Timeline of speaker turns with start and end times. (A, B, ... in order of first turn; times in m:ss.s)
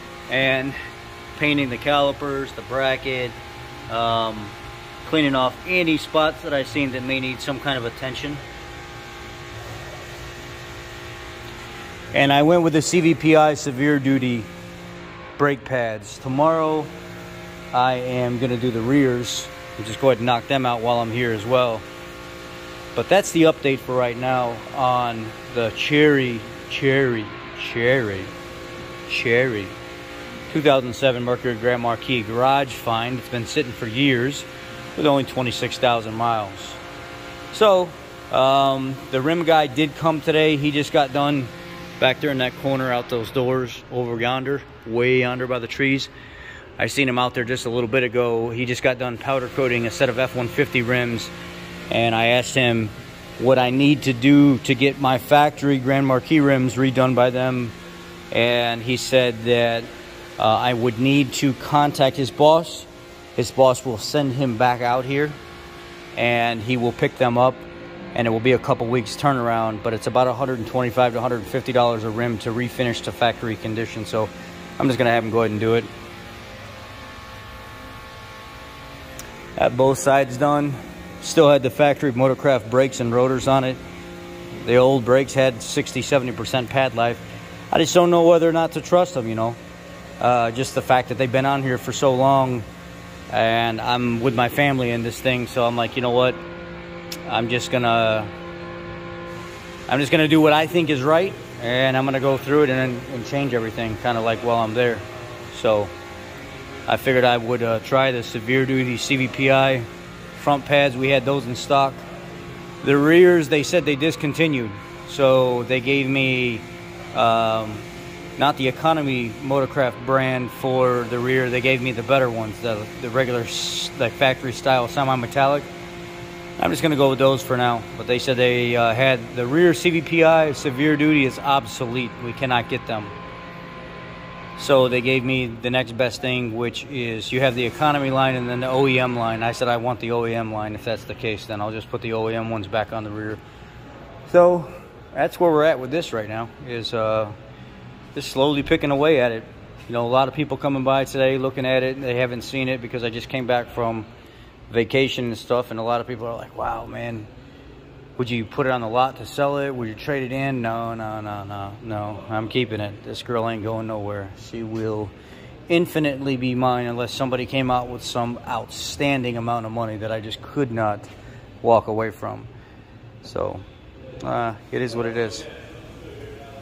0:00.3-0:00.8 A
0:01.4-0:03.4 A
0:03.9-0:08.4 A
0:12.1-0:14.5 A
0:15.4-0:16.9 A
0:17.7-0:21.8 A
0:23.0-0:28.3 A
0:29.1-0:29.8 A
0:30.5-0:36.8 A
0:37.5-0:46.1 A
0:46.8-0:51.3 A
0:51.9-0:57.7 A
0:58.3-1:05.4 A
1:06.2-1:15.9 A
1:19.6-1:23.8 A
1:24.6-1:29.6 A
1:30.2-1:32.7 A
1:33.3-1:36.4 A
1:37.3-1:38.3 A
1:39.9-1:45.9 A
1:46.9-1:52.0 A
1:52.8-1:57.8 A
1:58.4-2:05.7 A
2:06.6-2:13.1 A
2:14.6-2:23.4 A
2:24.3-2:27.3 A
2:28.1-2:34.1 A
2:34.7-2:37.3 A
2:38.2-2:45.1 A
2:45.7-2:51.1 A
2:51.6-2:52.5 A
2:53.2-2:53.6 A
2:54.2-2:55.5 A